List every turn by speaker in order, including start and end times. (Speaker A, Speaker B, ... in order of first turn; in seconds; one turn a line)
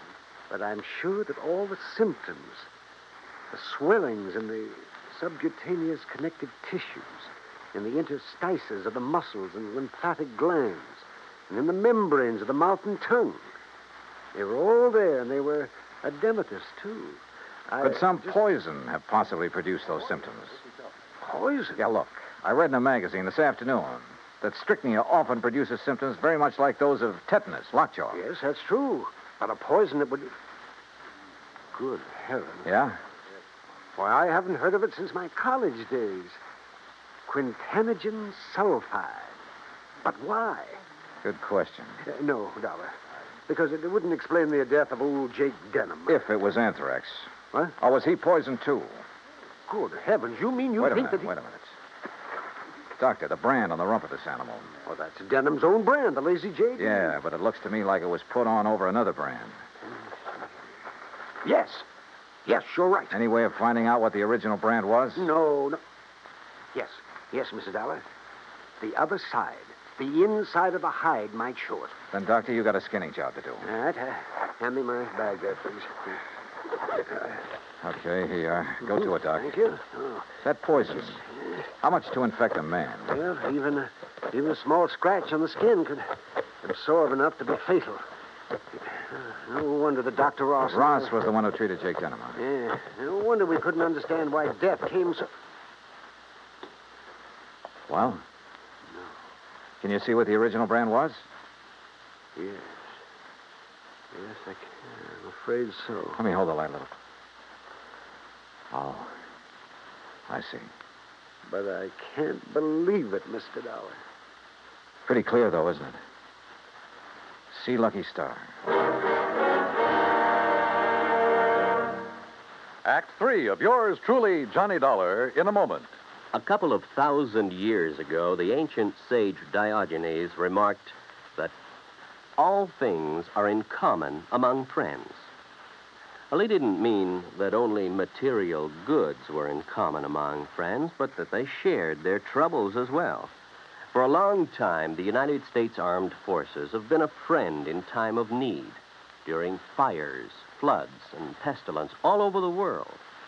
Speaker A: 0.5-2.7
Speaker A: 3.5-13.5
Speaker A: 14.3-18.4
Speaker B: 17.8-20.6
Speaker A: 21.2-21.8
Speaker B: 21.8-28.2
Speaker A: 28.1-30.3
Speaker A: 31.7-32.7
Speaker B: 32.6-33.0
Speaker A: 34.0-36.4
Speaker A: 37.3-39.3
Speaker A: 40.0-40.8
Speaker B: 41.2-42.0
Speaker A: 42.0-43.0
Speaker A: 43.5-46.2
Speaker B: 46.1-49.0
Speaker A: 49.7-51.3
Speaker B: 50.8-51.8
Speaker B: 53.0-54.7
Speaker A: 54.8-57.1
Speaker B: 56.8-59.6
Speaker A: 59.9-60.5
Speaker A: 61.4-61.8
Speaker A: 62.5-63.1
Speaker B: 63.1-65.3
Speaker A: 65.2-65.8
Speaker A: 66.7-68.0
Speaker A: 68.8-72.0
Speaker B: 72.1-73.7
Speaker A: 73.6-76.2
Speaker B: 77.8-79.5
Speaker A: 78.9-80.3
Speaker B: 80.4-81.2
Speaker A: 81.1-81.6
Speaker B: 81.8-83.1
Speaker A: 83.1-86.1
Speaker A: 86.6-88.0
Speaker A: 88.7-91.1
Speaker B: 90.7-92.4
Speaker A: 92.4-95.3
Speaker B: 97.9-98.2
Speaker B: 99.8-101.2
Speaker A: 102.3-102.9
Speaker A: 104.1-106.2
Speaker B: 106.2-106.9
Speaker B: 108.7-109.1
Speaker B: 110.3-110.7
Speaker A: 111.5-114.0
Speaker B: 115.0-116.0
Speaker B: 117.5-118.5
Speaker C: 122.8-125.9
Speaker D: 126.3-131.5
Speaker D: 132.4-135.3
Speaker D: 136.3-143.3
Speaker D: 143.9-153.0